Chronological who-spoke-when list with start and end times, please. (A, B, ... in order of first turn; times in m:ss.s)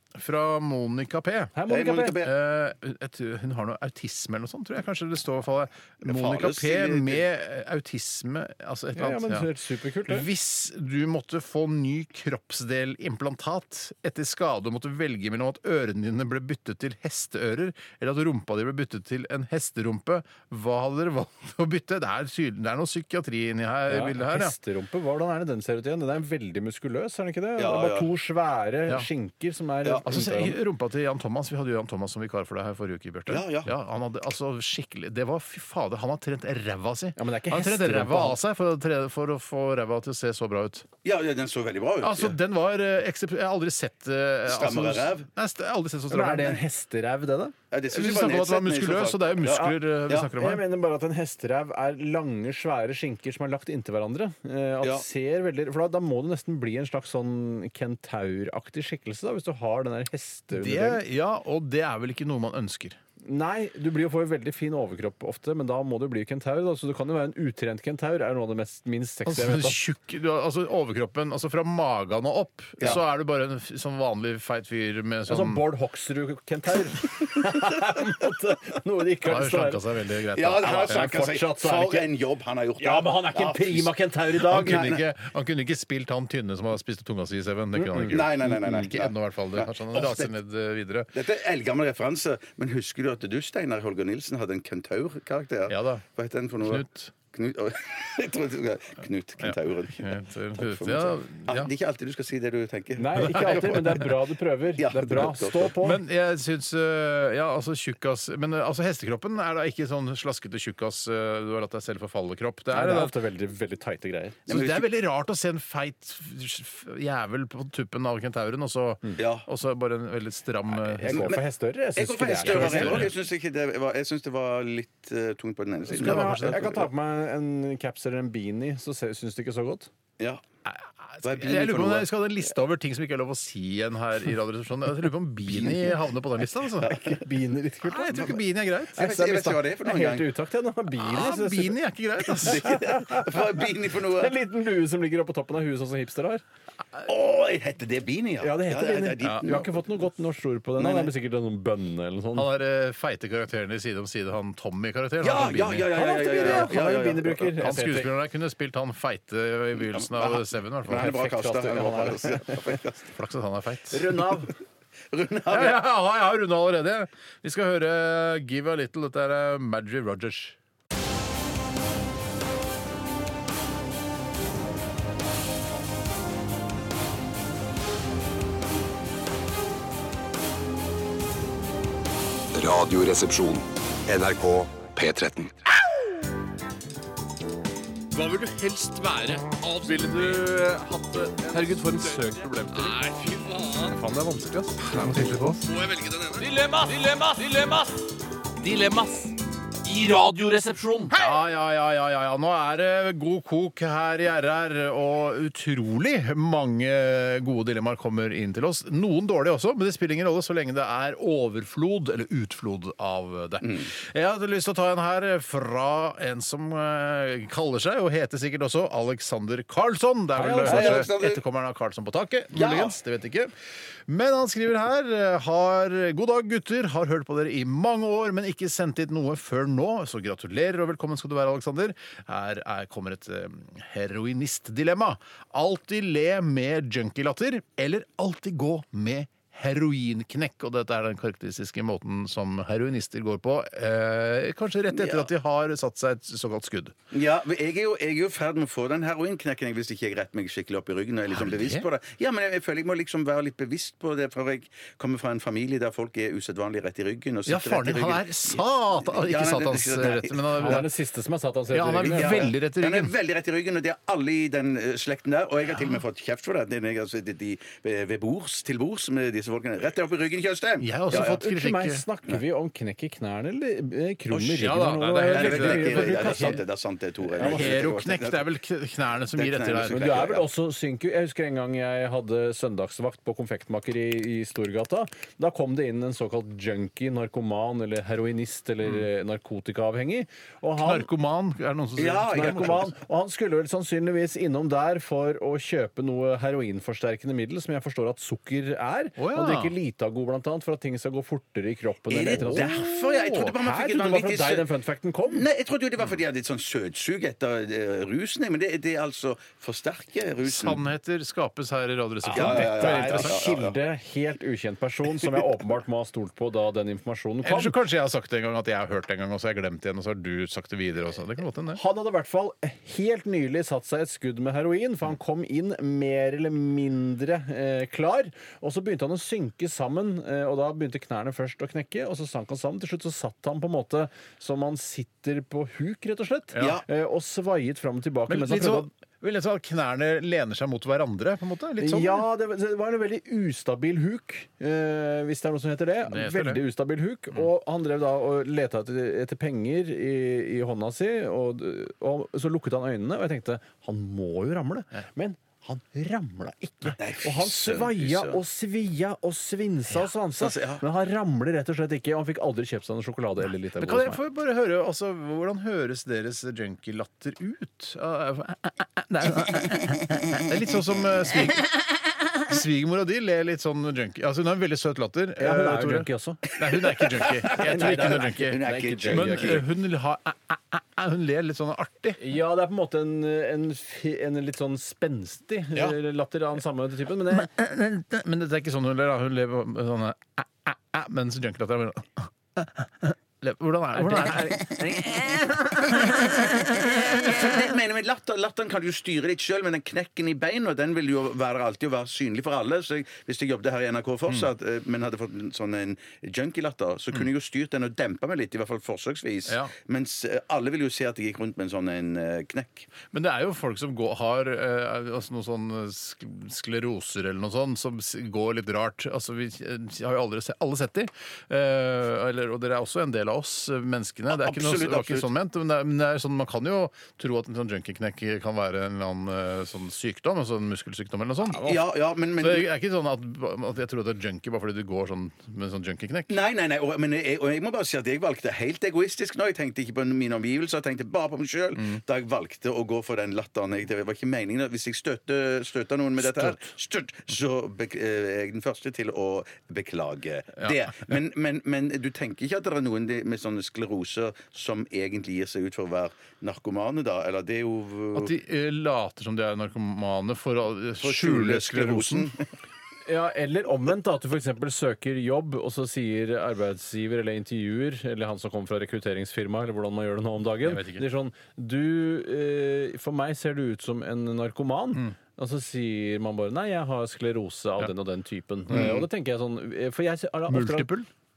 0:00.2-0:01.5 A
0:01.6-0:02.2 B
0:01.7-0:02.3 C
0:02.2-0:09.5 A
0:06.0-0:07.2 C
0:09.0-0:10.3 B
0:10.1-0:24.5 A
0:23.9-0:30.6 B
0:27.6-0:28.1 C
0:30.1-0:40.9 A
0:33.3-0:33.7 C
0:37.2-0:38.4 B
0:41.0-0:42.4 C
0:42.0-0:46.6 A
0:44.5-0:45.3 C
0:46.1-0:47.6 B
0:47.7-0:50.3 C
0:47.9-0:50.6 A
0:50.3-1:01.0 B
1:00.5-1:03.0 A
1:03.2-1:09.8 B
1:09.3-1:15.6 A
1:15.3-1:19.8 B
1:19.2-1:21.1 A
1:20.3-1:24.0 C
1:20.6-1:22.1 B
1:22.8-1:24.9 B
1:24.5-1:31.1 A
1:24.5-1:25.0 C
1:27.8-1:28.2 B
1:28.0-1:30.3 C
1:31.1-1:44.1 C
1:35.7-1:36.0 A
1:36.6-1:37.1 A
1:39.4-1:41.7 A
1:43.0-1:46.0 B
1:43.2-1:44.1 A
1:44.8-1:45.8 C
1:45.8-1:53.2 A
1:52.7-1:54.4 B
1:54.5-1:54.9 C
1:54.5-2:01.4 A
1:59.2-1:59.5 C
2:00.7-2:03.1 B
2:01.1-2:06.9 C
2:02.4-2:03.1 A
2:05.9-2:09.9 B
2:05.9-2:06.8 A
2:10.7-2:17.0 A
2:11.2-2:12.1 C
2:15.5-2:16.0 C
2:16.9-2:18.3 B
2:17.8-2:19.2 A
2:18.1-2:18.4 C
2:18.9-2:20.3 C
2:19.0-2:21.8 B
2:21.0-2:22.8 A
2:22.3-2:24.4 C
2:22.4-2:26.4 B
2:27.0-2:29.8 C
2:28.4-2:32.5 B
2:29.2-2:29.6 A
2:30.8-2:31.1 C
2:32.4-2:36.7 A
2:35.2-2:37.6 C
2:35.9-2:38.1 B
2:37.6-2:41.1 A
2:39.8-2:43.1 C
2:40.9-2:42.6 B
2:43.1-2:44.2 A
2:43.9-2:44.5 B
2:44.0-2:44.5 C
2:45.1-2:45.8 C
2:45.5-2:50.6 A
3:02.5-3:05.6 D
3:08.2-3:10.4 E
3:09.8-3:13.0 B
3:12.7-3:14.0 E
3:14.8-3:15.6 A
3:14.9-3:15.3 E
3:15.7-3:16.4 C
3:16.3-3:21.2 E
3:21.1-3:43.5 A
3:33.6-3:33.9 C
3:40.4-3:41.1 B
3:40.6-3:41.4 C
3:42.5-3:43.0 C
3:44.1-4:07.0 A
4:04.9-4:05.3 C
4:07.1-4:20.8 C
4:11.3-4:11.8 A
4:17.5-4:20.9 A
4:20.6-4:22.5 B
4:21.7-4:23.1 A
4:22.1-4:31.4 C
4:30.8-4:32.0 A
4:31.1-4:36.6 B
4:34.3-4:36.6 A
4:35.2-4:38.5 C
4:37.4-4:37.8 B
4:37.4-4:40.1 A
4:39.3-4:40.5 C
4:39.9-4:51.1 B
4:50.8-4:52.8 A
4:52.0-4:52.9 C
4:52.3-5:05.5 B
4:59.2-4:59.8 A
5:02.1-5:04.7 C
5:02.4-5:03.5 A
5:05.3-5:10.8 C
5:10.4-5:13.4 A
5:12.3-5:17.8 B
5:12.3-5:13.8 C
5:17.4-5:21.8 A
5:21.7-5:38.9 B
5:36.5-5:36.8 A
5:36.6-5:36.8 C
5:38.3-5:42.2 A
5:41.8-6:04.2 B
5:46.1-5:46.6 A
5:57.0-5:58.4 C
6:00.4-6:00.8 C
6:03.8-6:22.2 A
6:15.4-6:16.4 B
6:17.0-6:19.7 C
6:17.5-6:19.7 B
6:22.2-6:27.5 B
6:27.3-6:34.7 A
6:34.0-6:35.5 B
6:35.9-6:36.5 A
6:37.0-6:52.9 C
6:49.5-6:49.7 A
6:53.1-7:11.8 A
7:04.3-7:05.3 C
7:11.5-7:12.7 C
7:12.4-7:16.3 A
7:16.3-7:38.3 C
7:26.2-7:26.6 A
7:38.2-7:42.3 A
7:41.0-7:42.5 C
7:43.1-8:00.9 B
7:50.6-7:51.0 A
7:58.7-7:59.1 C
8:00.5-8:01.1 A